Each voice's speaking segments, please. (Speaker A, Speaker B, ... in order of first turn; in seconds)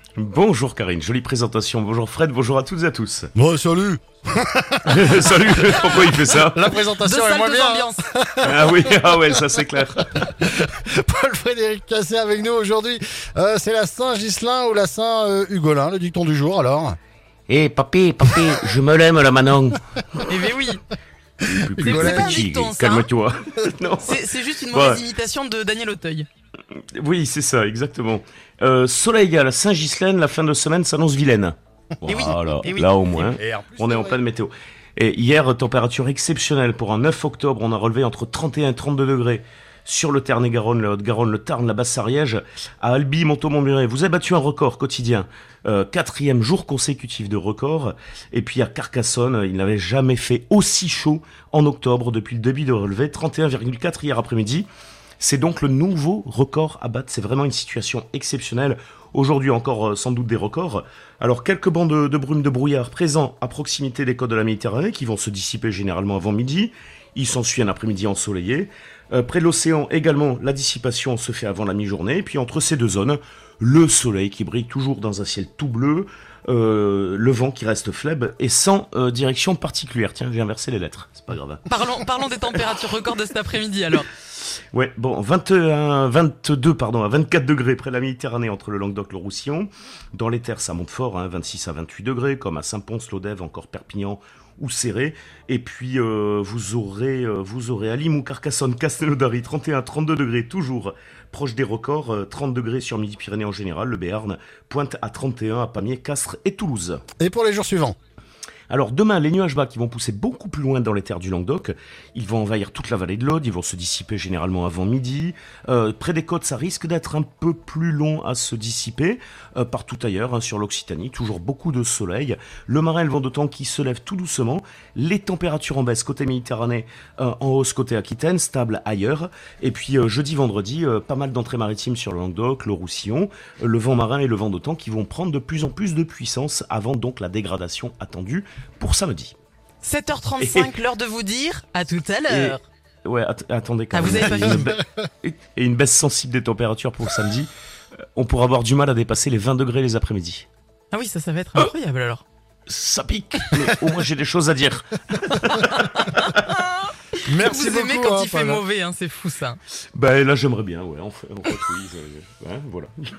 Speaker A: 0.2-3.3, 4.8-6.7, 8.4-10.2, 17.5-20.4, 21.5-25.0, 27.0-54.7, 55.2-81.7, 84.7-107.0, 108.7-139.3, 140.4-140.7, 142.3-147.5, 148.2-150.5, 152.7-156.3, 159.9-162.9
Speaker B: 3.4-9.4, 10.0-17.0, 21.8-22.4, 33.3-34.2, 107.2-108.0, 144.4-144.8, 153.6-153.9, 157.3-158.6
Speaker C: 7.0-8.0, 20.3-20.8, 21.8-23.1, 24.0-26.3, 32.1-33.2, 81.7-84.1, 139.8-142.6, 143.9-144.7, 150.9-152.2, 155.7-159.6